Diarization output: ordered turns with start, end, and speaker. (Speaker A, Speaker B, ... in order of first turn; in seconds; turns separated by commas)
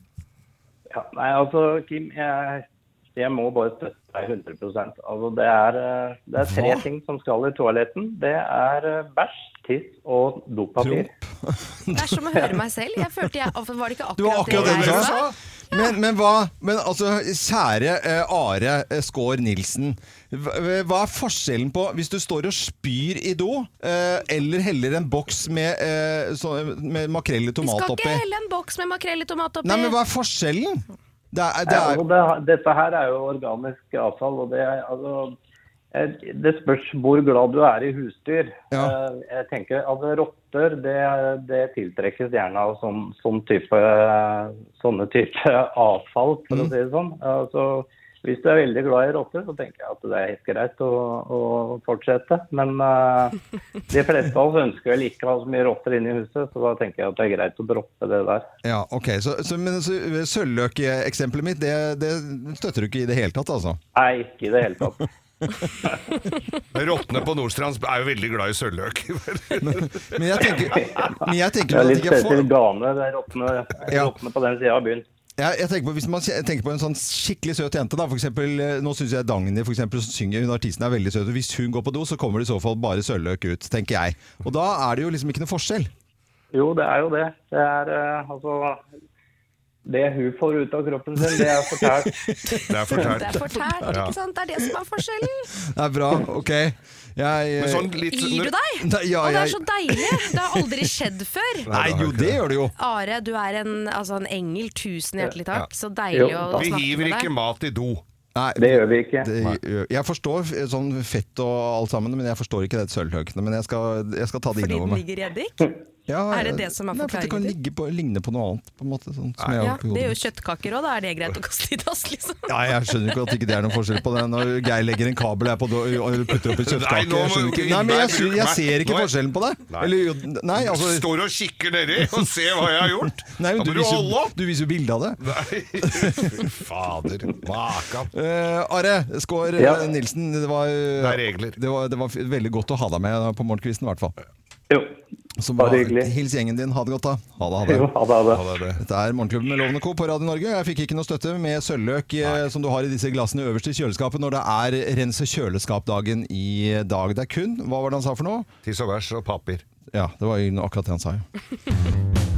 Speaker A: 0.9-11.1, Speaker B: 6.5-6.8, Speaker B: 10.8-12.2, Speaker C: 11.9-15.9, Speaker B: 14.2-15.2, Speaker D: 14.5-15.4, Speaker B: 15.7-28.2, Speaker C: 27.6-30.0, Speaker B: 29.6-32.0, Speaker A: 31.7-35.4, Speaker A: 35.9-53.4, Speaker A: 53.9-58.5, Speaker B: 58.6-63.8, Speaker A: 64.0-65.1, Speaker A: 65.6-66.0, Speaker D: 66.7-70.6, Speaker B: 69.6-72.5, Speaker A: 70.7-71.1, Speaker A: 71.7-75.0, Speaker B: 75.4-85.9, Speaker A: 86.5-88.8, Speaker A: 89.8-92.2, Speaker B: 91.2-94.0, Speaker C: 92.5-95.5, Speaker D: 92.7-94.1, Speaker B: 95.6-98.0, Speaker D: 97.6-98.5, Speaker C: 98.1-101.7, Speaker B: 98.8-100.9, Speaker D: 101.7-102.4, Speaker B: 101.7-102.7, Speaker C: 102.8-107.3, Speaker A: 106.1-106.7, Speaker D: 106.5-108.0, Speaker B: 108.3-115.0, Speaker A: 108.6-109.3, Speaker C: 114.5-115.7, Speaker B: 116.1-120.2, Speaker C: 116.3-117.5, Speaker D: 119.4-119.6, Speaker C: 119.6-123.3, Speaker B: 122.5-131.1, Speaker D: 126.5-129.1, Speaker D: 129.7-130.0, Speaker D: 130.6-134.3, Speaker B: 132.8-135.3, Speaker D: 135.2-138.1, Speaker B: 135.8-136.5, Speaker B: 138.1-144.2, Speaker A: 139.6-139.9, Speaker D: 141.0-141.6, Speaker A: 144.7-145.0, Speaker B: 145.4-147.9, Speaker A: 145.6-146.1, Speaker A: 147.7-148.4, Speaker D: 148.3-148.8, Speaker B: 148.8-158.5, Speaker D: 158.6-159.6, Speaker B: 159.9-161.2